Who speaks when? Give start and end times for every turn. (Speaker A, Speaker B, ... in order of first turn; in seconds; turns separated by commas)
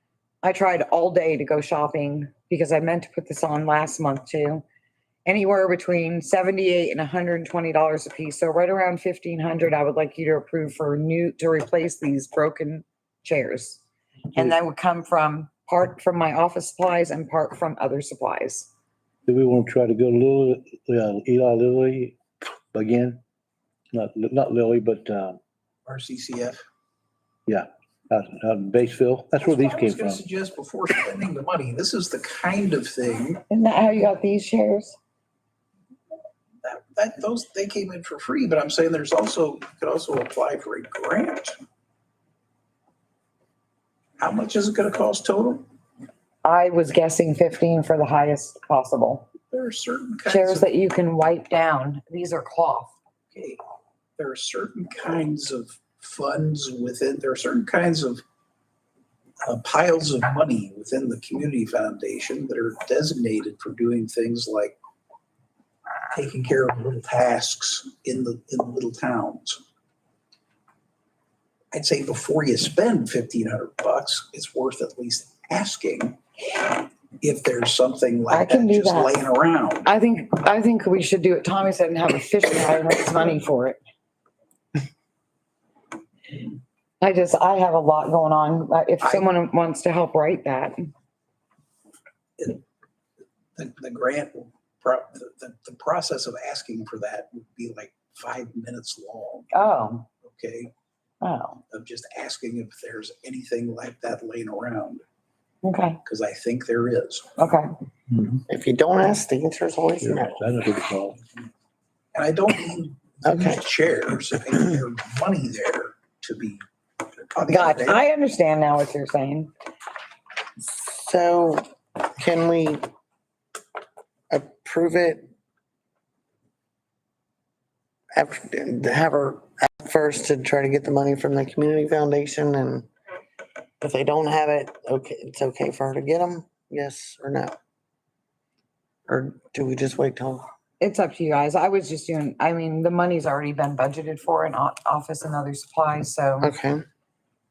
Speaker A: 0.4-4.6, Speaker A: 5.2-13.8, Speaker A: 14.3-18.7, Speaker B: 19.2-22.2, Speaker B: 22.7-23.2, Speaker B: 23.9-25.4, Speaker C: 25.9-26.6, Speaker B: 27.5-30.2, Speaker C: 29.4-33.4, Speaker A: 33.5-35.0, Speaker C: 36.6-41.5, Speaker C: 44.2-45.6, Speaker A: 46.4-49.3, Speaker C: 49.5-50.7, Speaker A: 50.3-52.9, Speaker C: 53.3-53.6, Speaker C: 54.2-58.2, Speaker C: 59.4-64.8, Speaker C: 66.1-69.6, Speaker C: 71.7-76.2, Speaker C: 77.2-79.9, Speaker A: 78.3-79.1, Speaker A: 79.8-83.8, Speaker A: 87.0-90.9, Speaker C: 89.0-89.3, Speaker C: 92.4-92.6, Speaker C: 93.5-99.5, Speaker A: 99.5-100.1, Speaker C: 100.2-100.7, Speaker A: 101.2-101.6, Speaker C: 101.7-105.0, Speaker A: 105.6-106.0, Speaker C: 106.0-107.3, Speaker A: 107.4-107.7, Speaker B: 108.1-108.4, Speaker D: 108.5-110.4, Speaker B: 110.0-111.2, Speaker C: 112.1-116.6, Speaker D: 113.2-113.6, Speaker C: 117.3-118.0, Speaker A: 117.5-119.5, Speaker D: 120.6-121.7, Speaker D: 122.2-122.9, Speaker D: 124.3-125.3, Speaker D: 128.2-132.9, Speaker D: 133.8-137.6, Speaker D: 139.1-140.4, Speaker A: 140.8-146.5, Speaker D: 146.4-146.8